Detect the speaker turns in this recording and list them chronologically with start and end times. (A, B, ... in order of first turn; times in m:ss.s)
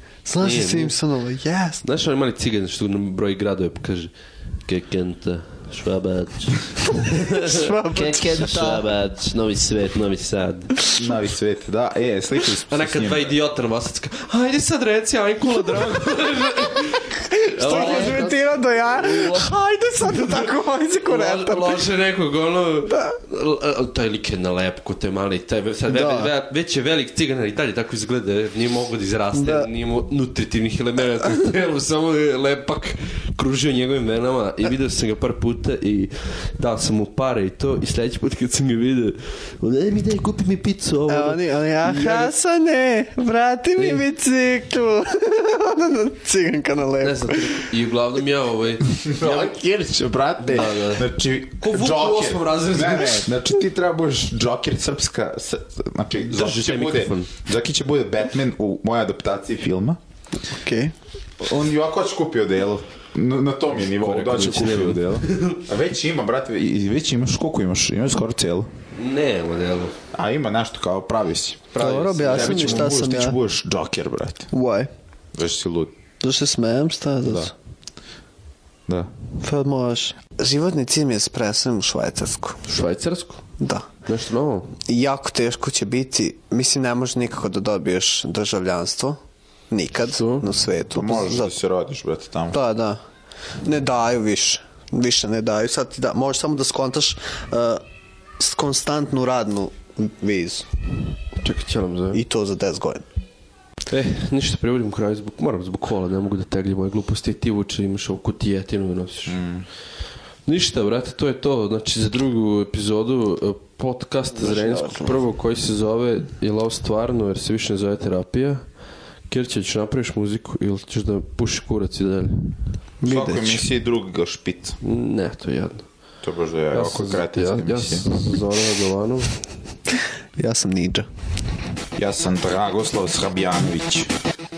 0:00.2-0:01.8 A
0:00.4-0:01.0 B
0:01.8-0:04.1 B
0:04.6-0:10.7 B
0:07.3-0:08.8 A
0:11.0-0:13.3 C
0:12.7-0:20.5 B
0:17.3-0:21.8 A
0:21.0-0:42.3 B
0:25.9-0:26.3 A
0:29.3-0:29.7 A
0:41.1-0:47.7 A
0:43.8-0:44.0 B
0:47.0-0:49.6 B
0:49.0-1:00.0 C
0:50.5-0:51.0 B
0:51.6-0:53.3 B
0:56.3-0:57.3 B
1:00.5-1:00.9 A
1:01.4-1:08.7 C
1:03.8-1:05.6 B
1:08.9-1:10.0 B
1:10.1-1:11.7 C
1:11.7-1:12.9 B
1:11.8-1:13.4 A
1:12.2-1:14.5 C
1:14.5-1:14.9 A
1:15.3-1:15.9 C
1:16.2-1:17.5 A
1:17.2-1:17.5 C
1:19.4-1:22.6 A
1:22.6-1:23.4 B
1:23.6-1:23.9 A
1:24.0-1:24.7 B
1:24.8-1:29.2 A
1:29.7-1:31.5 A
1:30.1-1:30.4 B
1:30.9-1:32.6 C
1:32.5-1:33.0 A
1:33.6-1:37.8 A
1:38.4-1:40.7 A
1:41.4-1:42.2 B
1:42.1-1:43.0 A
1:43.9-1:49.4 B
1:49.2-1:49.6 C
1:50.4-1:58.6 B
1:54.4-1:55.2 A
1:59.3-2:02.5 B
2:03.0-2:03.7 A
2:03.0-2:04.8 C
2:04.8-2:05.9 B
2:06.2-2:08.1 C
2:06.7-2:09.4 B
2:10.4-2:11.1 A
2:12.0-2:14.1 C